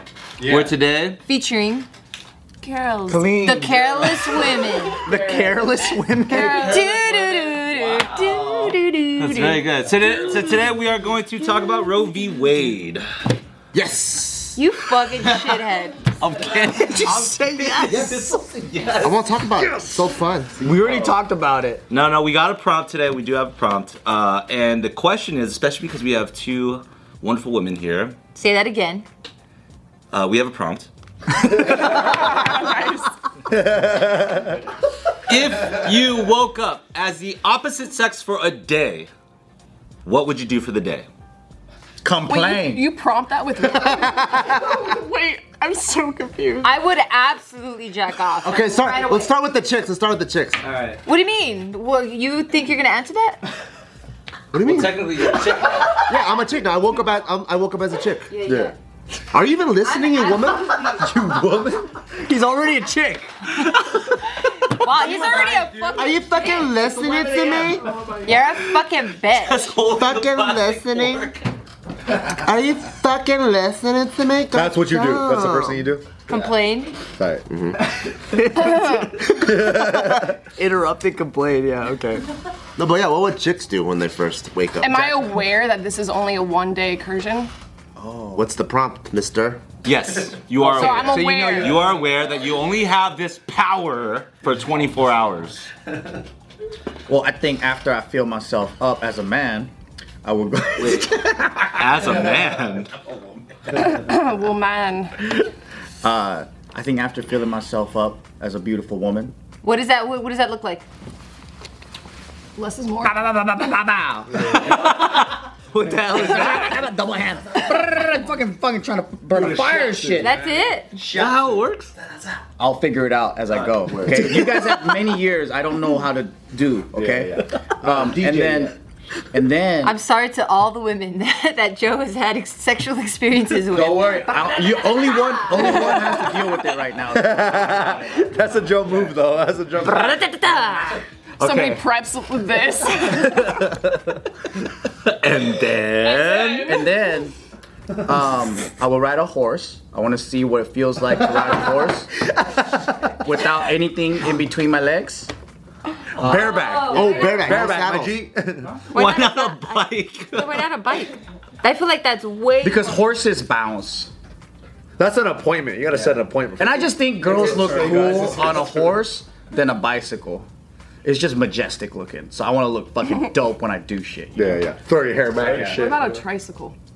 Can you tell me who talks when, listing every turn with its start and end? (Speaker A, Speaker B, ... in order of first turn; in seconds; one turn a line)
Speaker A: 0.4-0.7
Speaker B: 0.4-1.2
Speaker C: 1.3-1.9
Speaker D: 2.6-7.2
Speaker A: 3.1-3.7
Speaker C: 3.4-5.1
Speaker E: 5.1-6.7
Speaker C: 6.3-9.6
Speaker B: 9.2-13.1
Speaker F: 13.7-14.6
Speaker C: 14.6-16.2
Speaker B: 16.2-17.3
Speaker E: 16.7-18.6
Speaker G: 17.8-18.1
Speaker F: 19.0-20.5
Speaker G: 20.6-21.8
Speaker B: 21.9-28.2
Speaker C: 28.4-29.1
Speaker B: 30.1-30.9
Speaker B: 31.6-32.2
Speaker D: 31.6-33.1
Speaker A: 33.5-34.5
Speaker B: 35.3-39.1
Speaker B: 40.0-41.1
Speaker G: 42.0-42.9
Speaker D: 42.3-46.7
Speaker C: 46.6-49.3
Speaker F: 48.4-50.6
Speaker B: 50.6-51.0
Speaker C: 51.0-53.4
Speaker F: 54.5-55.3
Speaker B: 54.6-56.3
Speaker F: 56.0-58.7
Speaker C: 58.3-58.7
Speaker F: 59.3-61.9
Speaker C: 59.8-61.2
Speaker E: 62.2-63.3
Speaker C: 64.3-67.0
Speaker G: 65.0-65.7
Speaker F: 65.9-67.9
Speaker C: 68.2-69.7
Speaker B: 69.3-71.4
Speaker F: 69.9-71.3
Speaker F: 72.1-76.5
Speaker A: 74.5-76.1
Speaker C: 76.3-77.0
Speaker F: 77.5-77.8
Speaker E: 78.3-82.2
Speaker D: 78.7-79.1
Speaker A: 79.5-80.2
Speaker F: 82.8-85.1
Speaker D: 84.8-87.5
Speaker G: 88.0-88.5
Speaker F: 88.3-89.6
Speaker B: 89.8-95.7
Speaker D: 90.5-91.9
Speaker E: 90.8-91.8
Speaker G: 97.1-99.7
Speaker G: 100.2-101.4
Speaker B: 101.7-102.9
Speaker D: 103.7-105.4
Speaker G: 106.0-109.3
Speaker C: 109.6-110.9
Speaker D: 112.6-113.2
Speaker G: 113.0-114.7
Speaker B: 115.8-116.2
Speaker G: 116.0-120.3
Speaker A: 119.3-120.7
Speaker C: 120.2-121.0
Speaker B: 121.0-121.9
Speaker G: 122.6-128.8
Speaker F: 123.9-124.2
Speaker A: 126.9-128.0
Speaker F: 128.1-128.7
Speaker G: 129.3-130.0
Speaker C: 129.8-136.2
Speaker A: 133.7-134.3
Speaker G: 134.0-137.9
Speaker A: 135.6-135.9
Speaker A: 137.1-140.1
Speaker C: 139.8-141.0
Speaker G: 141.4-141.8
Speaker D: 141.4-143.5
Speaker B: 145.0-146.8
Speaker D: 146.1-146.7
Speaker G: 146.6-147.3
Speaker G: 148.0-152.1
Speaker G: 153.1-155.3
Speaker G: 156.2-156.6
Speaker C: 156.2-157.6
Speaker A: 156.2-158.8
Speaker F: 156.9-158.3
Speaker C: 158.9-163.0
Speaker B: 158.9-160.7
Speaker G: 162.6-164.1
Speaker A: 165.0-168.6
Speaker G: 165.9-170.5
Speaker F: 167.8-168.3
Speaker G: 171.0-174.7
Speaker A: 174.4-176.2
Speaker F: 175.3-175.8
Speaker D: 175.8-176.8